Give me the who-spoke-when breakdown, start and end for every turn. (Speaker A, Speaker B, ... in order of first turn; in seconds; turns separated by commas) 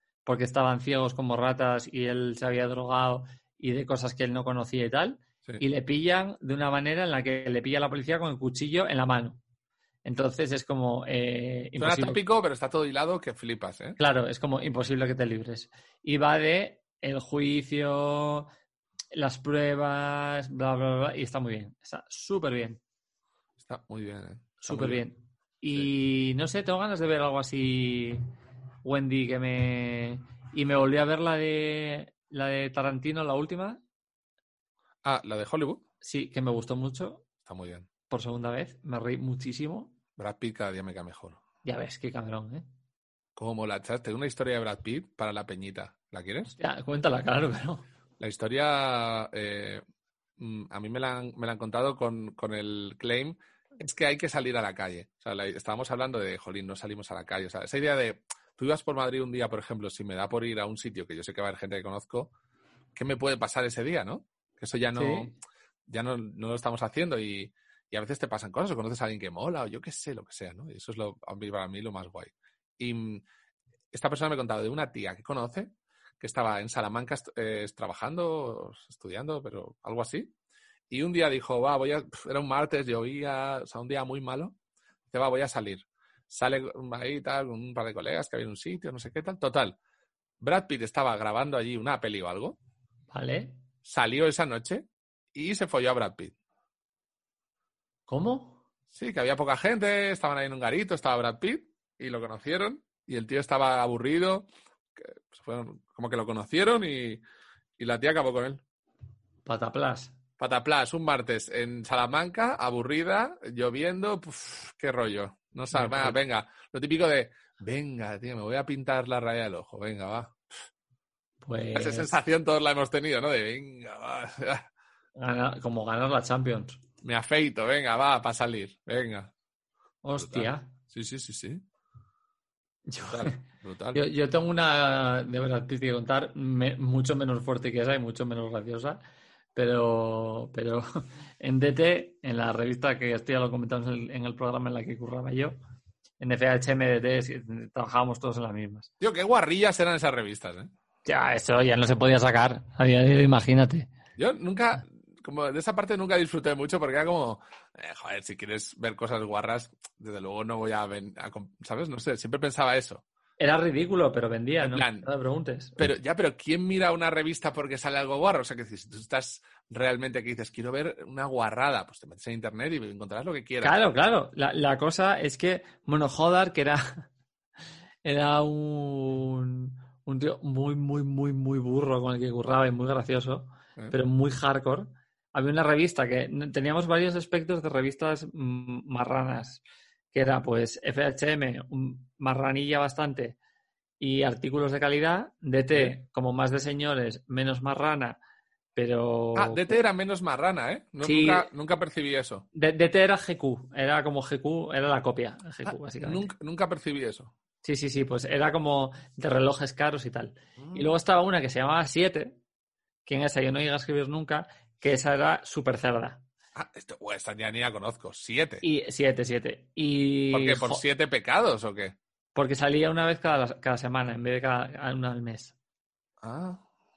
Speaker A: 0.2-9.4, Speaker A: 10.1-12.2, Speaker B: 11.8-14.0, Speaker A: 14.0-18.5, Speaker A: 19.1-22.8, Speaker B: 23.6-25.0, Speaker A: 24.6-28.2, Speaker A: 28.8-33.8, Speaker B: 35.0-35.8, Speaker A: 36.0-37.3, Speaker B: 37.4-37.9, Speaker A: 38.1-40.0, Speaker B: 40.2-41.4, Speaker A: 41.6-42.6, Speaker B: 43.4-46.5, Speaker A: 46.5-47.9, Speaker B: 48.2-49.8, Speaker B: 50.4-62.3, Speaker B: 63.0-65.3, Speaker A: 65.0-65.3, Speaker B: 65.9-73.2, Speaker B: 73.9-80.3, Speaker B: 80.9-84.6, Speaker B: 85.1-89.8, Speaker B: 90.4-92.6, Speaker A: 93.1-93.6, Speaker B: 93.8-96.3, Speaker A: 98.1-98.6, Speaker B: 98.9-107.2, Speaker B: 107.8-108.6, Speaker A: 109.5-110.1, Speaker B: 110.4-120.4, Speaker A: 115.7-116.2, Speaker A: 121.4-122.1, Speaker B: 121.8-124.7, Speaker A: 125.2-126.8, Speaker B: 127.0-129.3, Speaker A: 130.0-130.7, Speaker B: 130.2-131.6, Speaker A: 132.9-139.0, Speaker B: 133.1-134.0, Speaker A: 139.6-145.6, Speaker A: 146.2-148.9, Speaker B: 149.0-150.7, Speaker A: 151.1-153.9, Speaker B: 154.2-163.0, Speaker A: 163.4-165.8, Speaker B: 164.6-165.1, Speaker B: 165.8-173.8, Speaker A: 173.6-177.1, Speaker A: 178.0-189.6, Speaker A: 190.1-193.4, Speaker A: 194.0-198.2, Speaker A: 198.8-199.8, Speaker B: 199.3-202.5, Speaker A: 201.0-201.5, Speaker A: 202.5-206.3, Speaker B: 205.7-207.3, Speaker A: 207.6-212.4, Speaker B: 210.6-211.0, Speaker A: 213.1-216.2, Speaker B: 216.6-218.6, Speaker A: 218.6-220.8, Speaker B: 220.3-222.0, Speaker A: 222.3-225.6, Speaker B: 226.2-226.6